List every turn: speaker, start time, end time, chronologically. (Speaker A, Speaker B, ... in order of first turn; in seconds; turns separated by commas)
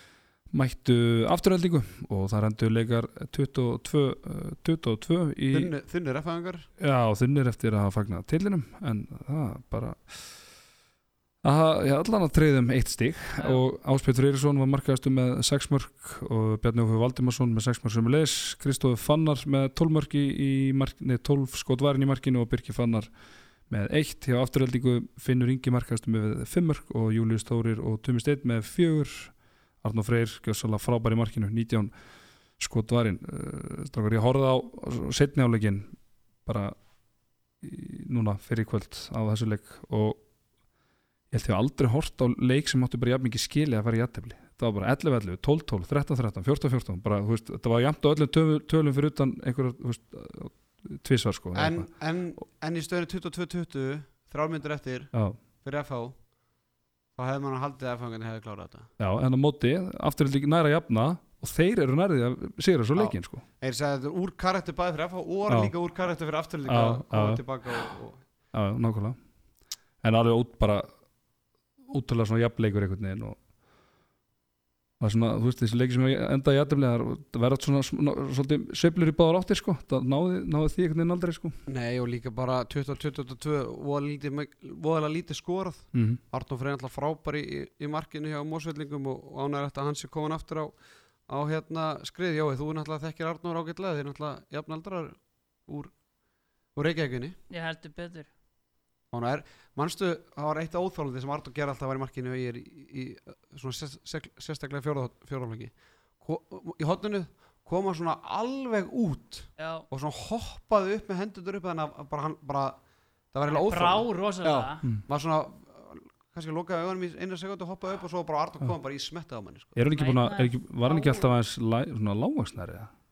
Speaker A: 0.5-5.7, Speaker B: 5.5-6.7, Speaker A: 6.8-10.3, Speaker A: 11.4-23.1, Speaker C: 13.4-13.6, Speaker A: 23.7-31.9, Speaker A: 32.6-36.7, Speaker A: 37.6-40.2, Speaker A: 41.3-51.9, Speaker B: 51.5-55.1, Speaker B: 55.6-56.1, Speaker B: 57.2-58.9, Speaker A: 59.0-63.4, Speaker B: 63.0-68.2, Speaker A: 65.5-65.7, Speaker A: 66.7-67.4, Speaker A: 68.5-69.2, Speaker A: 70.0-70.9, Speaker A: 71.9-73.4, Speaker A: 75.0-81.5, Speaker B: 81.7-90.7, Speaker A: 85.9-86.2, Speaker B: 91.3-95.9, Speaker B: 96.8-97.4, Speaker C: 97.5-98.3, Speaker B: 99.1-112.8, Speaker C: 109.6-109.8, Speaker B: 113.3-119.8, Speaker C: 113.5-114.8, Speaker A: 119.8-122.9, Speaker C: 119.9-121.3